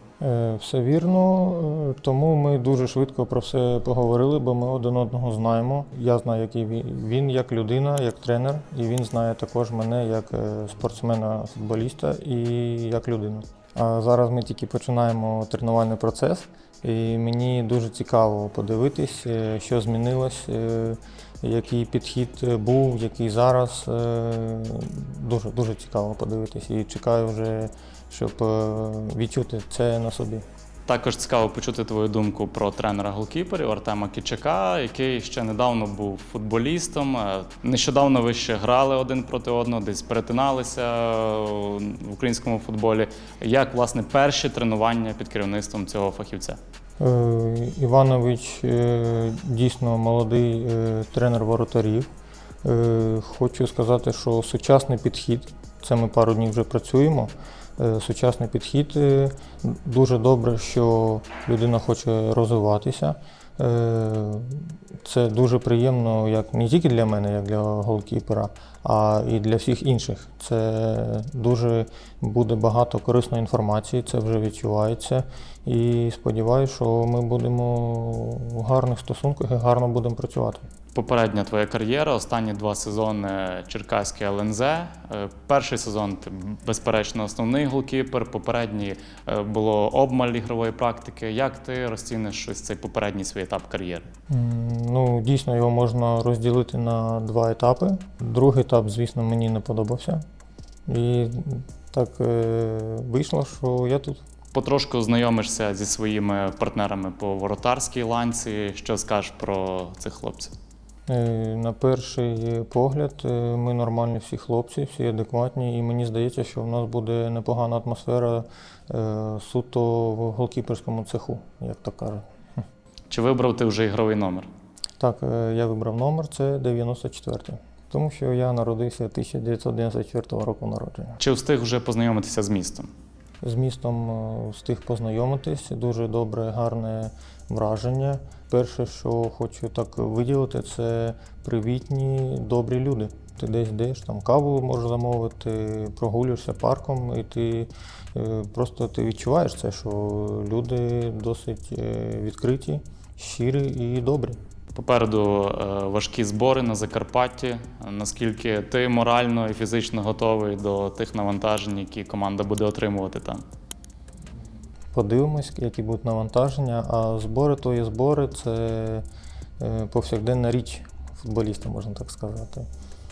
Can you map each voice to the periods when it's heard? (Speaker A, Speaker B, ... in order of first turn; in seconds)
Speaker A: 0.2-30.4, 47.0-52.1, 52.6-80.6, 94.3-100.2, 100.9-104.2, 111.1-122.2, 125.0-131.2, 133.4-154.4, 164.9-169.0, 169.6-172.7
Speaker B: 30.9-46.6, 80.9-94.0, 104.5-110.5, 123.1-124.5, 131.2-132.9, 154.7-163.4